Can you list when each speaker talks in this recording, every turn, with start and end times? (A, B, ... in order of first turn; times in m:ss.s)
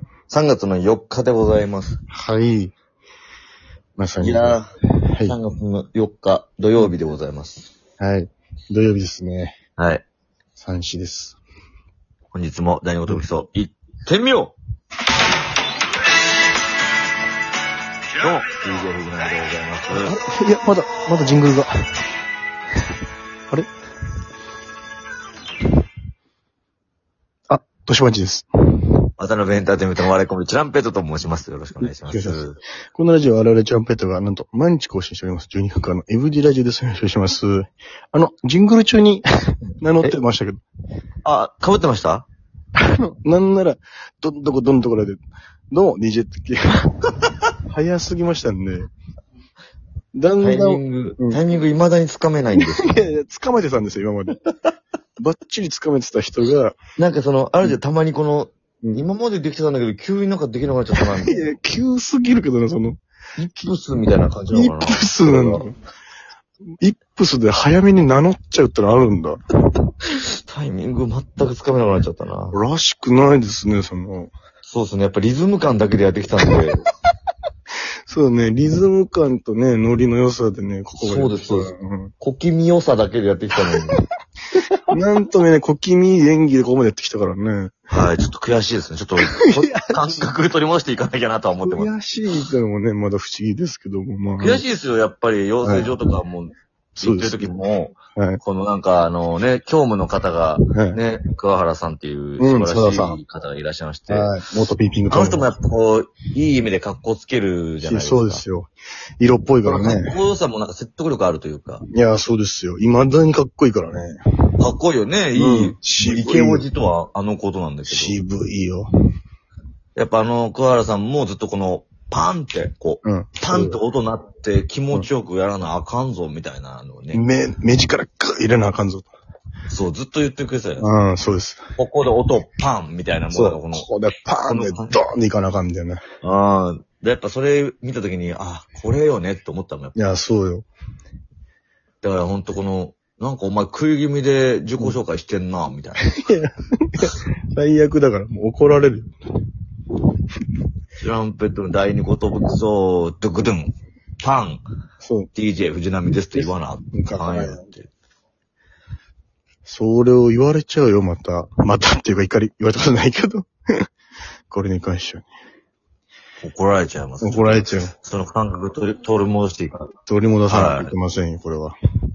0:00.3-0:02.0 A
0:02.1-0:02.7 B
0:04.0-0:04.6 B
0:04.2-0:04.7 A
0:05.2-0:07.7 A
0:08.0-0:09.5 B
0:09.8-0:10.0 A
0:10.6-0:11.4 B
0:12.3-0:14.5 A
0:18.2-0:20.1 A
0:19.9-0:21.7 B
0:27.5-0:28.4 B
0:29.2-0:32.6 A
0:31.8-0:32.4 B
0:33.0-0:39.2 B
0:39.8-0:40.6 B
0:41.2-0:42.3 A
0:42.8-0:45.2 B
0:45.7-0:46.9 B
0:47.7-0:48.9 B
0:50.2-0:51.4 B
0:50.4-0:53.1 A
0:52.6-0:54.4 B
0:55.2-0:56.8 B
0:57.0-1:01.4 A
1:01.0-1:03.0 B
1:03.4-1:05.6 A
1:04.5-1:05.7 B
1:06.8-1:09.4 B
1:10.1-1:12.6 A
1:12.5-1:14.3 B
1:14.6-1:16.8 A
1:18.1-1:22.1 B
1:21.0-1:24.0 A
1:24.9-1:27.8 B
1:27.9-1:31.9 A
1:29.3-1:30.0 B
1:31.6-1:34.6 B
1:34.4-1:44.4 A
1:35.6-1:35.9 B
1:37.0-1:37.5 B
1:38.2-1:38.4 B
1:40.7-1:41.0 B
1:42.4-1:43.2 B
1:44.1-1:45.5 B
1:45.1-1:48.4 A
1:47.8-1:50.2 B
1:49.6-1:51.8 A
1:51.9-1:54.2 B
1:54.6-1:58.2 A
1:55.3-1:56.6 B
1:57.9-1:58.9 B
2:00.0-2:07.2 A
2:03.0-2:03.8 B
2:07.1-2:09.1 B
2:09.7-2:10.8 A
2:10.8-2:11.6 B
2:11.8-2:13.8 A
2:13.3-2:16.0 B
2:14.5-2:15.0 A
2:16.2-2:20.0 A
2:19.9-2:20.7 B
2:22.0-2:26.0 A
2:26.0-2:29.1 B
2:31.0-2:34.6 A
2:35.0-2:35.3 B
2:35.3-2:37.9 A
2:36.3-2:37.6 B
2:39.7-2:43.5 B
2:44.5-2:45.3 B
2:46.4-2:49.9 A
2:47.2-2:47.9 B
2:50.0-2:51.7 B
2:50.5-2:50.9 A